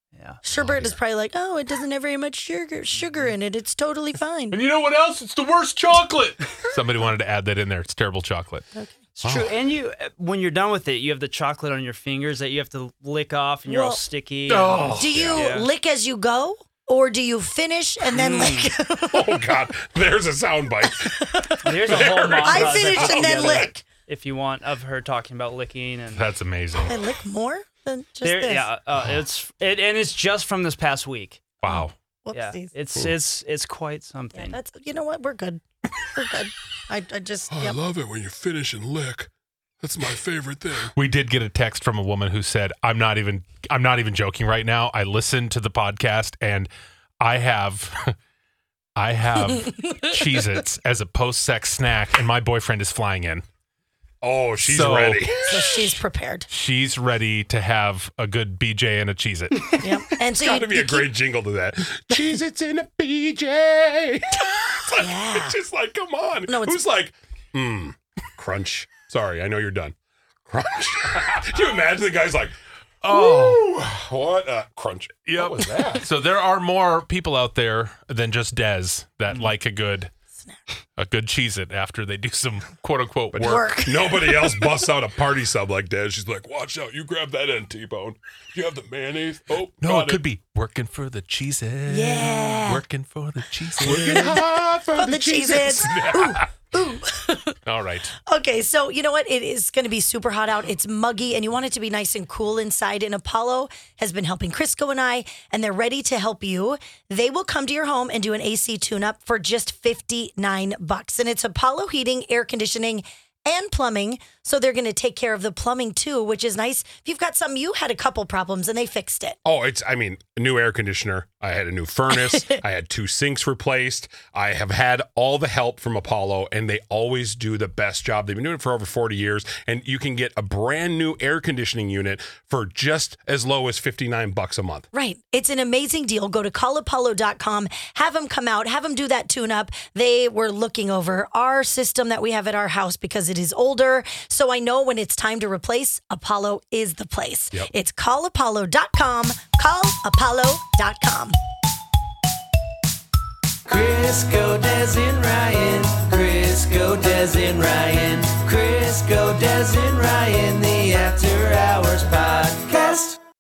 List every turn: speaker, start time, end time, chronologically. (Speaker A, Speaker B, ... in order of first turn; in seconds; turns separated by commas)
Speaker A: 0.1-0.4, Speaker B: 0.4-4.6, Speaker C: 0.6-1.0, Speaker D: 4.5-8.7, Speaker A: 9.2-15.7, Speaker C: 9.2-9.5, Speaker B: 13.7-14.0, Speaker D: 14.5-15.3, Speaker C: 14.9-15.4, Speaker B: 15.0-19.4, Speaker A: 18.1-18.7, Speaker C: 19.1-23.7, Speaker B: 21.0-23.8, Speaker A: 21.6-26.2, Speaker D: 26.1-27.0, Speaker B: 26.8-28.7, Speaker A: 28.2-31.6, Speaker D: 31.6-31.9, Speaker B: 31.6-32.7, Speaker A: 32.3-34.6, Speaker B: 34.4-37.8, Speaker C: 37.5-39.3, Speaker C: 39.8-40.9, Speaker D: 40.9-48.2, Speaker D: 49.0-53.5, Speaker C: 54.2-55.6, Speaker D: 54.6-55.8, Speaker B: 55.5-56.5, Speaker D: 56.5-59.8, Speaker B: 59.8-61.1, Speaker C: 60.4-70.0, Speaker B: 65.0-65.6, Speaker B: 66.5-66.8, Speaker C: 70.5-72.5, Speaker D: 73.0-73.7, Speaker C: 73.0-76.0, Speaker D: 75.3-80.1, Speaker D: 81.0-83.8, Speaker C: 83.3-90.2, Speaker B: 83.4-84.6, Speaker D: 89.8-94.9, Speaker B: 91.9-92.8, Speaker C: 93.8-96.2, Speaker B: 93.8-94.4, Speaker B: 95.0-97.6, Speaker D: 95.5-96.4, Speaker D: 97.7-98.1, Speaker B: 98.3-119.4, Speaker C: 119.5-134.9, Speaker B: 122.3-122.6, Speaker B: 134.9-151.4, Speaker E: 153.7-163.2